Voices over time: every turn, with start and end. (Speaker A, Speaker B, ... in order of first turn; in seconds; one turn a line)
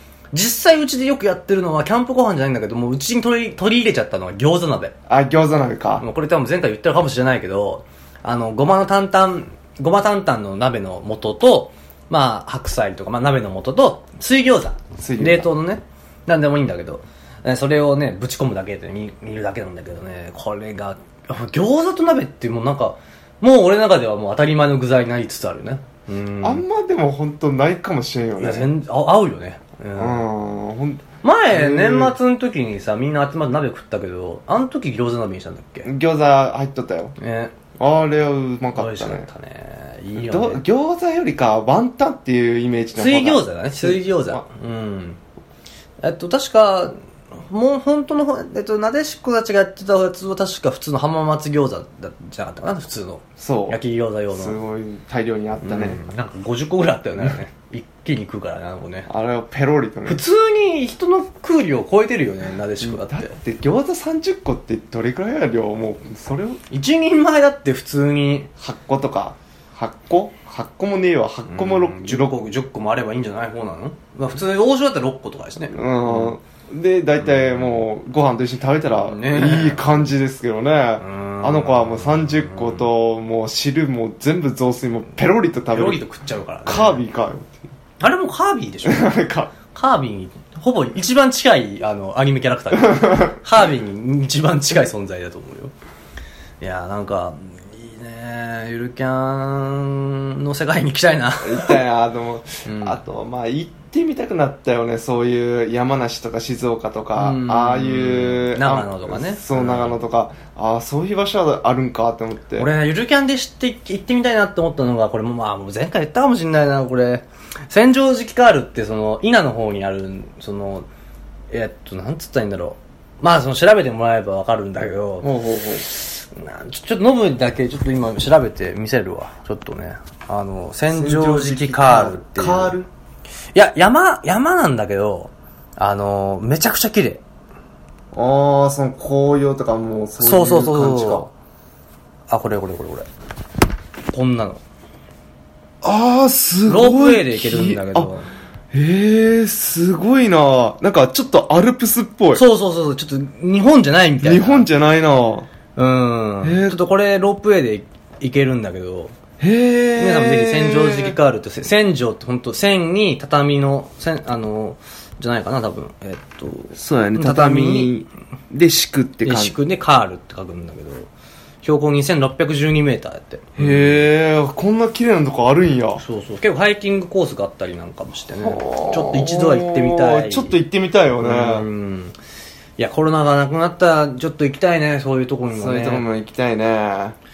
Speaker A: 0.3-4.9
Speaker B: 5.1-6.0
Speaker A: 6.0-26.6
Speaker B: 15.0-15.5
Speaker B: 26.4-28.7
Speaker A: 28.4-30.3
Speaker B: 30.0-32.2
Speaker A: 31.2-35.9
Speaker B: 35.9-37.1
Speaker A: 37.2-37.5
Speaker B: 37.8-39.3
Speaker A: 38.8-40.6
Speaker B: 40.2-44.4
Speaker A: 43.0-45.2
Speaker A: 46.0-47.0
Speaker A: 47.5-54.6
Speaker B: 53.4-53.8
Speaker B: 54.3-56.0
Speaker A: 55.6-59.1
Speaker B: 59.1-60.2
Speaker A: 60.1-63.4
Speaker B: 62.8-66.6
Speaker A: 66.7-68.5
Speaker B: 68.6-72.3
Speaker A: 71.5-76.3
Speaker B: 75.7-86.0
Speaker A: 77.2-77.6
Speaker A: 79.0-80.1
Speaker A: 81.0-82.9
Speaker A: 85.7-87.0
Speaker B: 86.7-87.7
Speaker A: 88.0-95.7
Speaker B: 88.8-89.5
Speaker B: 92.8-93.3
Speaker A: 96.6-101.8
Speaker B: 101.4-112.7
Speaker A: 102.7-103.0
Speaker A: 107.2-110.0
Speaker A: 112.6-120.9
Speaker A: 121.5-125.3
Speaker B: 125.2-125.9
Speaker A: 125.9-132.8
Speaker B: 130.9-132.9
Speaker A: 133.5-137.2
Speaker B: 138.1-141.3
Speaker A: 140.2-141.3
Speaker A: 142.3-143.1
Speaker A: 144.1-144.6
Speaker B: 145.8-148.1
Speaker A: 146.7-148.3
Speaker B: 148.7-152.4
Speaker A: 152.3-154.7
Speaker B: 154.2-155.5
Speaker A: 155.8-159.2
Speaker B: 156.4-156.8
Speaker B: 159.4-161.2
Speaker A: 160.0-167.9
Speaker B: 166.8-169.6
Speaker A: 169.2-171.1
Speaker A: 171.6-174.1
Speaker B: 173.6-176.0
Speaker A: 176.0-180.6
Speaker B: 178.4-181.7
Speaker A: 181.2-182.2
Speaker A: 182.8-186.1
Speaker B: 185.5-187.2